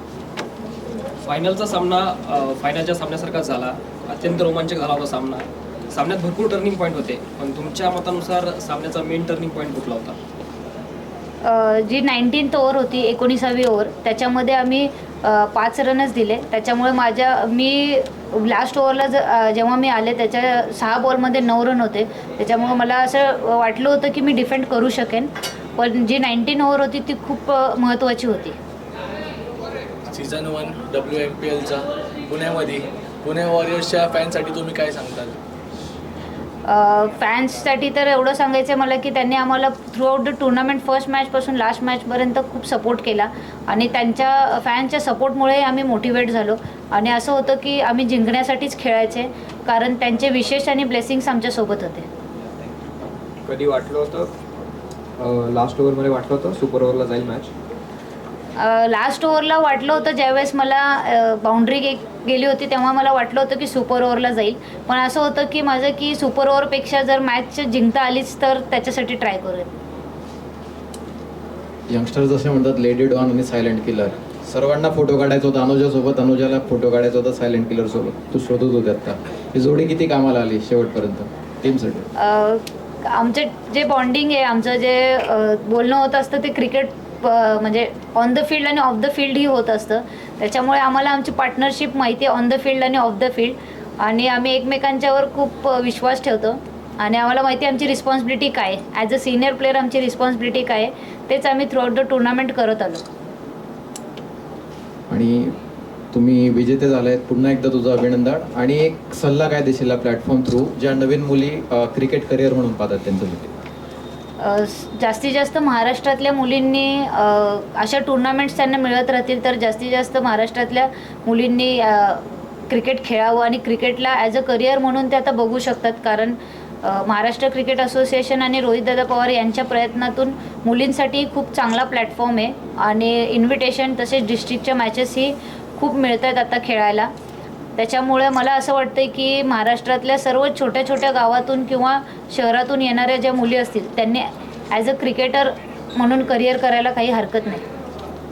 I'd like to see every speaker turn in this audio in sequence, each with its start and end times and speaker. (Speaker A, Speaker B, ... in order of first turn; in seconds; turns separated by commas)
Speaker A: 1.3-10.1, Speaker B: 11.4-28.6, Speaker C: 30.1-35.4, Speaker B: 36.7-52.1, Speaker D: 53.5-54.3, Speaker D: 55.2-57.5, Speaker B: 58.6-69.7, Speaker E: 71.9-82.1, Speaker B: 82.2-103.0, Speaker E: 105.1-105.5, Speaker E: 106.1-113.5, Speaker B: 114.4-137.1, Speaker B: 137.8-147.6